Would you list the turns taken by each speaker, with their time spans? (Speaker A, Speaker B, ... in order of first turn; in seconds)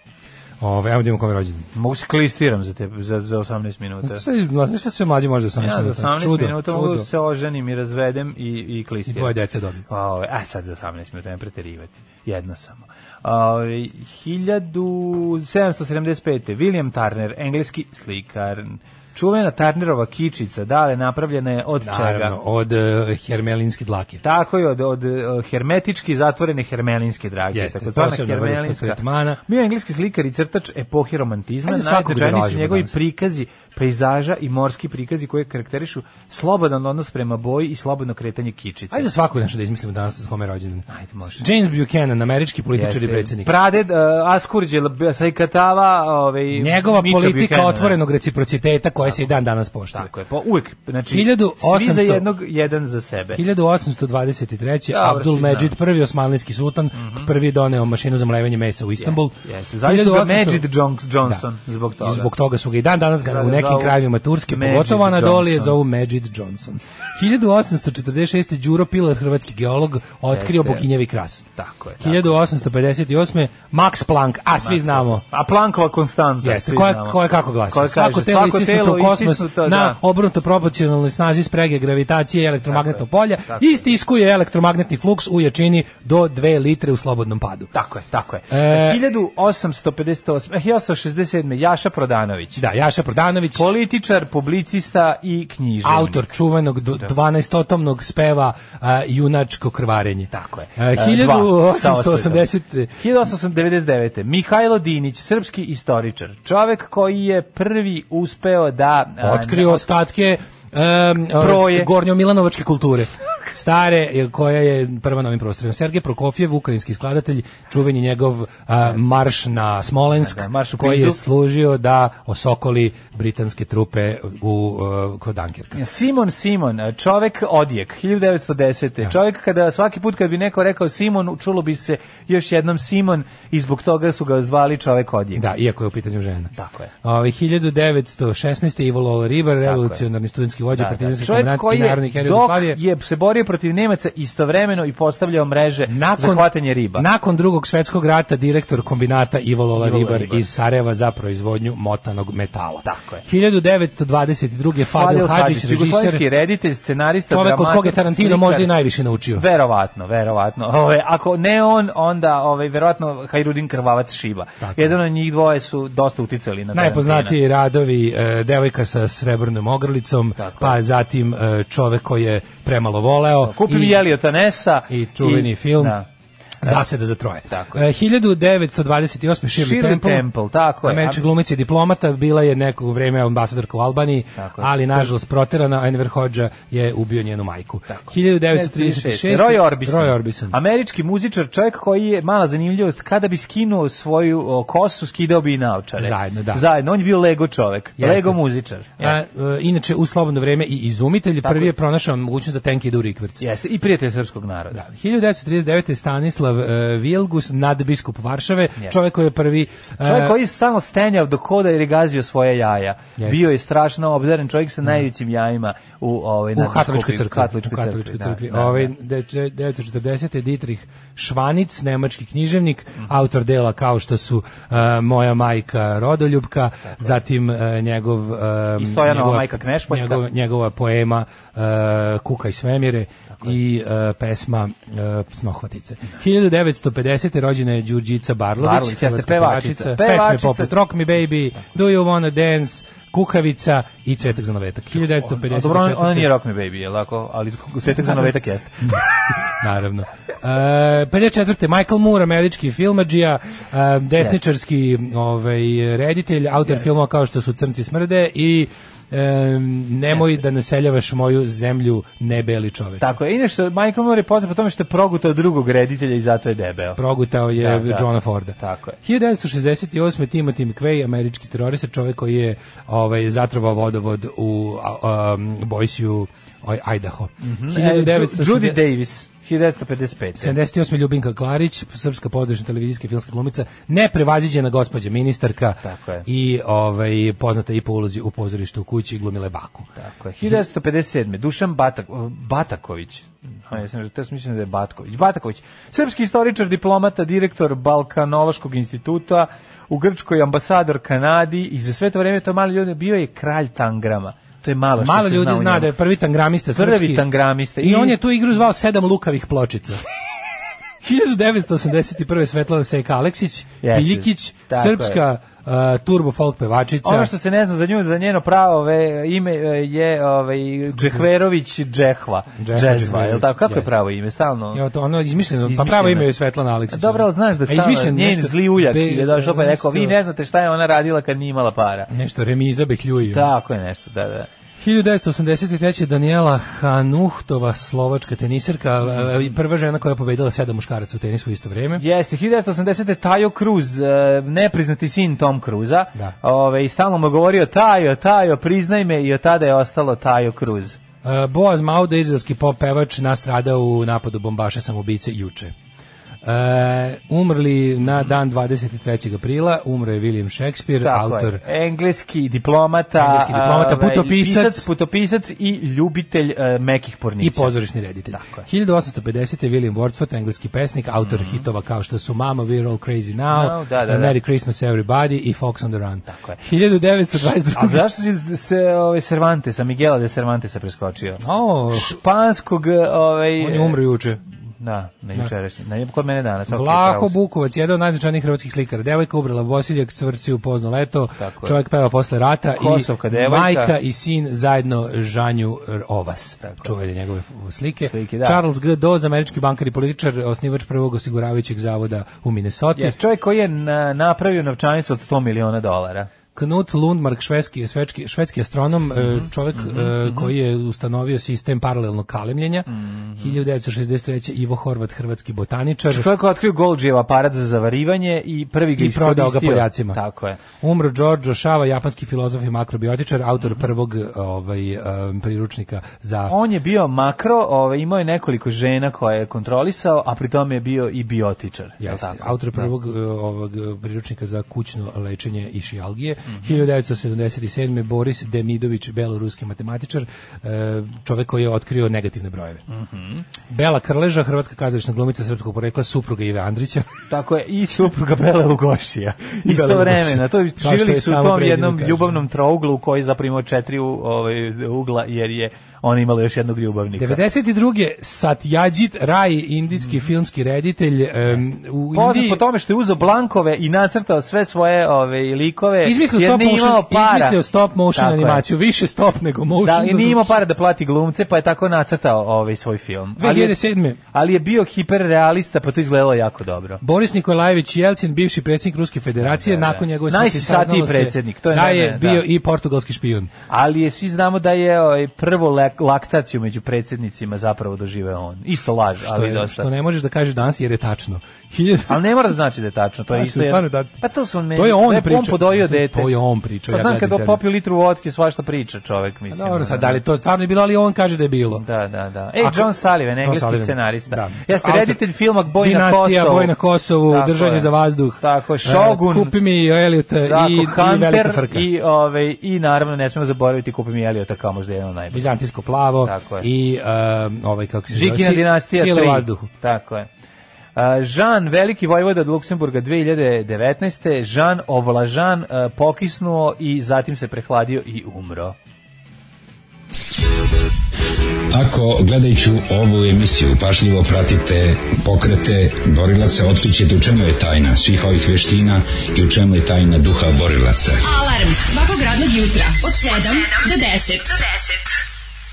Speaker A: 0.6-1.7, 4.0-7.1, 9.1-9.8, 21.8-24.2, 27.5-29.4, 31.6-33.0, 38.9-43.6, 46.5-50.1, 51.1-52.3, 53.3-60.6, 62.0-71.4, 72.0-75.2, 76.4-87.7, 88.5-89.0, 92.5-93.7, 95.8-102.9, 109.2-125.8, 135.3-136.5, 137.0-142.8, 145.9-156.2, 157.3-159.4, 164.6-164.9, 166.7-174.0, 174.9-176.0, 176.6-180.3, 180.8-190.6, 196.0-196.6, 198.0-198.4, 199.0-203.4, 204.7-210.3, 213.2-213.4, 216.5-246.3, 249.6-263.1, 267.0-278.8, 280.4-289.9, 305.0-307.3, 307.8-310.0, 311.0-317.3, 322.6-323.9, 324.7-330.1, 332.1-333.5, 334.8-342.0, 351.2-355.7, 356.4-361.6, 363.2-364.9, 367.4-378.1, 381.4-382.2, 383.6-384.4, 386.7-403.1, 406.5-416.3, 419.0-420.2, 420.7-426.5, 432.0-442.8, 443.7-447.1, 449.6-452.4, 457.1-462.6, 466.0-470.6, 473.4-474.2, 477.0-483.5, 489.2-492.2, 493.3-494.2, 494.7-497.6, 499.5-501.8, 502.6-511.9, 515.3-519.7
Speaker B: 1.7-4.2, 5.6-9.3, 9.9-22.3, 24.2-39.1, 40.9-41.4, 42.7-48.0, 49.0-49.3, 49.9-53.4, 54.9-55.7, 56.9-57.3, 59.0-62.3, 63.2-65.8, 70.3-70.8, 71.5-72.3, 74.6-80.0, 82.7-83.8, 87.7-92.6, 93.5-96.3, 100.3-109.8, 111.4-111.9, 120.2-121.2, 125.7-135.4, 136.5-136.9, 139.6-140.0, 140.7-147.1, 149.8-150.4, 152.8-153.2, 154.9-158.7, 159.3-167.4, 170.4-170.8, 173.4-176.1, 177.5-177.8, 179.6-181.2, 184.4-185.1, 187.9-199.2, 201.4-201.7, 203.4-204.8, 210.0-218.9, 226.9-227.1, 228.8-230.2, 238.6-240.7, 244.9-249.0, 263.0-267.0, 267.6-269.0, 277.4-280.6, 285.8-286.2, 290.0-305.9, 306.7-308.2, 313.8-315.2, 317.0-324.8, 325.4-326.3, 326.9-332.1, 333.2-334.5, 342.0-351.0, 361.0-367.7, 368.3-368.6, 371.2-371.6, 373.5-374.4, 376.3-376.6, 377.7-384.0, 384.8-387.3, 391.4-391.8, 392.7-393.9, 396.6-396.9, 398.1-398.6, 402.9-406.3, 409.3-410.5, 412.9-413.6, 416.1-420.6, 426.5-432.9, 436.5-436.8, 442.9-443.4, 447.3-457.4, 461.5-467.6, 468.1-468.6, 469.8-473.8, 474.3-477.0, 479.4-482.4, 483.7-489.9, 492.1-496.3, 496.9-500.2, 501.7-506.7, 507.3-509.5, 510.4-515.4, 516.2-516.7, 518.1-520.3, 521.0-528.8
Speaker C: 531.7-541.2
Speaker D: 541.2-545.0